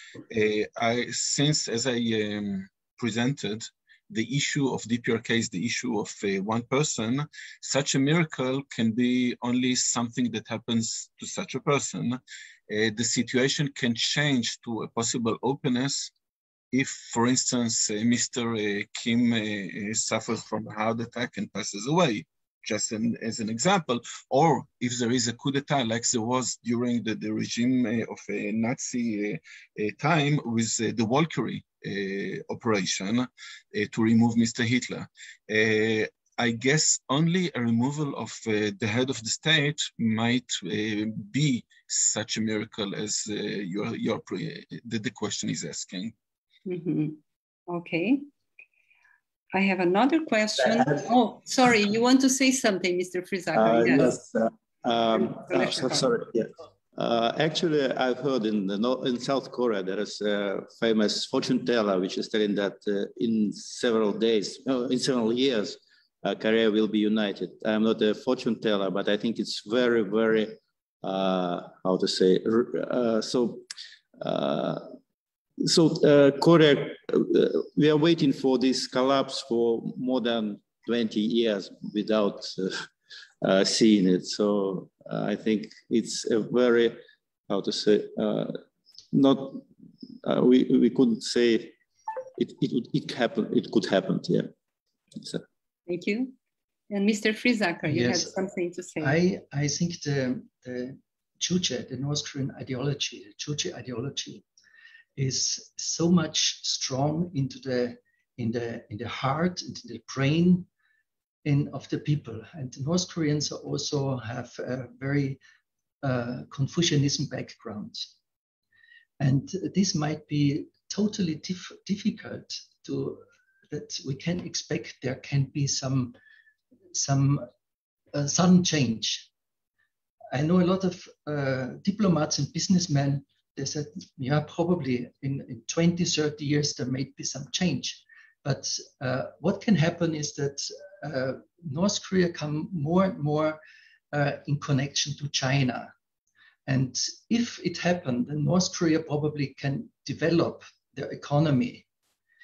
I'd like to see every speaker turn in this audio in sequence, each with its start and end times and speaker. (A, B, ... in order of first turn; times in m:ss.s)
0:00.3-0:16.1 A
0:16.7-0:46.1 A
0:46.7-0:48.3 B
0:49.5-0:54.2 B
0:53.6-1:13.6 C
0:55.4-0:56.1 B
1:14.2-1:14.9 C
1:15.6-1:22.7 C
1:23.4-1:28.6 C
1:29.1-1:29.6 C
1:30.2-1:31.8 C
1:32.4-1:34.5 C
1:35.9-1:36.3 B
1:36.9-1:39.2 B
1:37.9-1:38.3 D
1:39.0-1:44.4 D
1:45.2-1:50.7 D
1:51.4-1:55.4 D
1:56.0-1:58.1 D
1:59.2-2:06.1 D
2:06.9-2:07.5 D
2:08.1-2:09.3 D
2:10.3-2:23.6 D
2:24.1-2:25.9 D
2:26.7-2:31.8 D